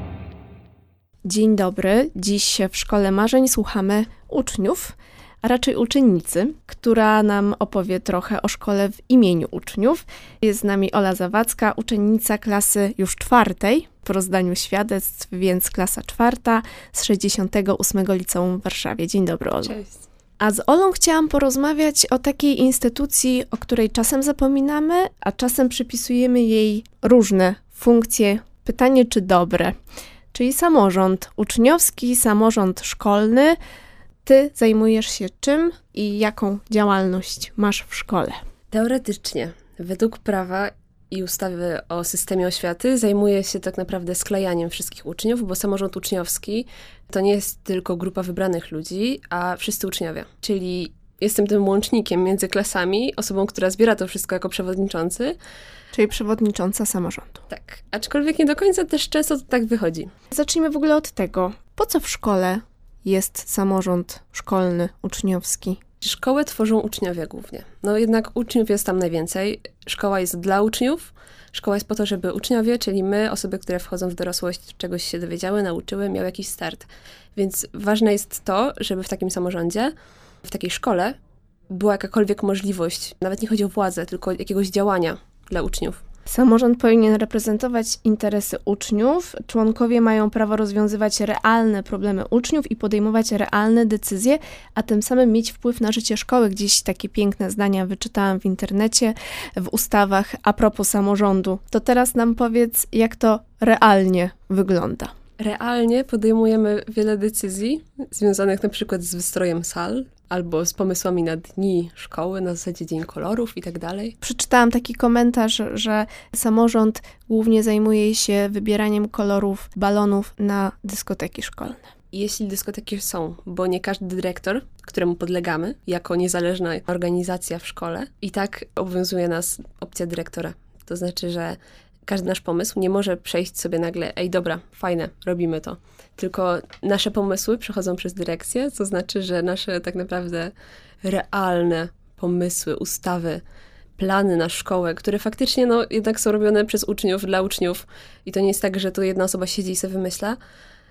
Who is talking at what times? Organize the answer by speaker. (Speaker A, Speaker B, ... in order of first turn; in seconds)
Speaker A: 1.2-19.8, 20.4-29.8, 30.3-33.6, 34.2-38.4, 55.9-57.4, 60.3-65.8, 86.3-105.1, 114.2-121.8
Speaker B: 19.6-20.0, 38.7-55.4, 57.5-60.1, 66.0-79.9, 80.4-81.2, 81.7-86.0, 105.4-114.2, 122.1-143.4, 144.0-150.4